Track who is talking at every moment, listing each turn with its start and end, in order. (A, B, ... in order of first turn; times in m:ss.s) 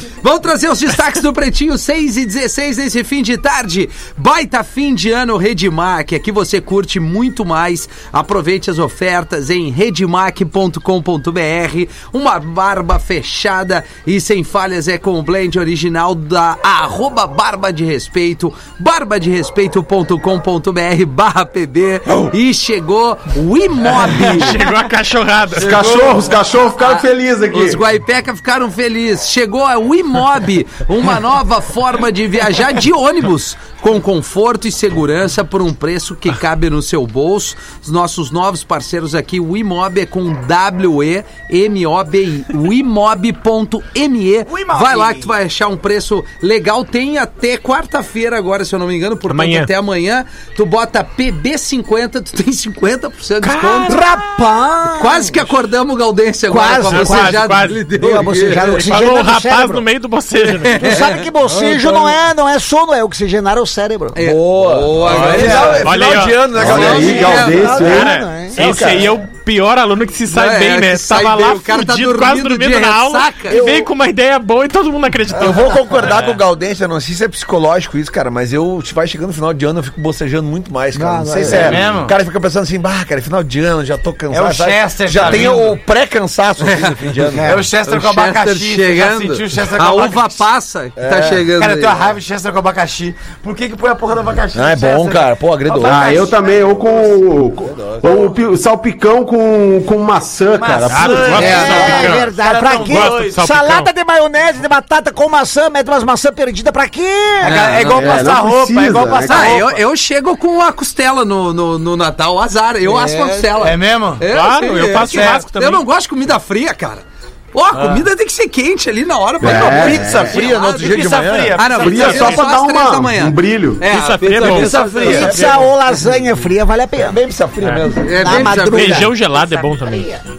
0:00.2-0:24.6 A
0:24.1-0:25.8 B
0:25.5-0:27.8 C
0:25.6-0:26.3 D
0:26.8-0:54.0 A
0:44.5-0:45.3 D
0:49.3-0:49.7 B
0:53.4-0:54.0 B
0:53.8-0:55.4 E
0:55.0-0:58.8 A
0:56.5-0:59.8 E
0:56.9-0:57.8 B
0:58.5-1:01.0 B
1:00.6-1:01.2 A
1:00.8-1:04.2 E
1:01.5-1:02.0 F
1:04.1-1:07.7 A
1:04.2-1:07.7 F
1:05.1-1:06.1 D
1:05.7-1:06.5 B
1:06.5-1:08.1 C
1:07.0-1:08.6 E
1:07.8-1:16.1 B
1:08.5-1:09.1 F
1:10.3-1:13.6 A
1:15.3-1:27.6 F
1:20.9-1:21.9 E
1:21.5-1:22.1 D
1:24.3-1:25.8 D
1:26.6-1:27.1 A
1:27.4-1:30.4 D
1:27.8-1:32.1 A
1:31.0-1:31.5 F
1:31.5-1:36.7 D
1:34.5-1:37.1 F
1:35.8-1:41.7 C
1:37.6-1:38.3 F
1:40.5-1:43.4 D
1:40.9-1:42.3 B
1:41.3-1:41.8 A
1:41.3-1:47.7 E
1:42.9-1:43.9 B
1:47.4-1:49.8 D
1:47.4-1:48.3 A
1:47.8-1:49.6 C
1:49.3-2:01.0 A
1:52.8-1:53.5 E
1:53.6-1:54.2 D
1:54.2-1:55.8 B
1:54.9-1:55.4 D
1:57.7-1:58.0 D
1:59.4-2:00.3 C
1:59.5-2:02.4 D
1:59.9-2:01.6 F
2:01.5-2:05.3 A
2:01.8-2:03.8 C
2:03.9-2:05.7 B
2:04.4-2:05.3 D
2:05.0-2:07.2 E
2:05.1-2:05.6 F
2:07.0-2:08.5 F
2:08.0-2:09.1 A
2:08.2-2:10.2 E
2:08.5-2:10.2 B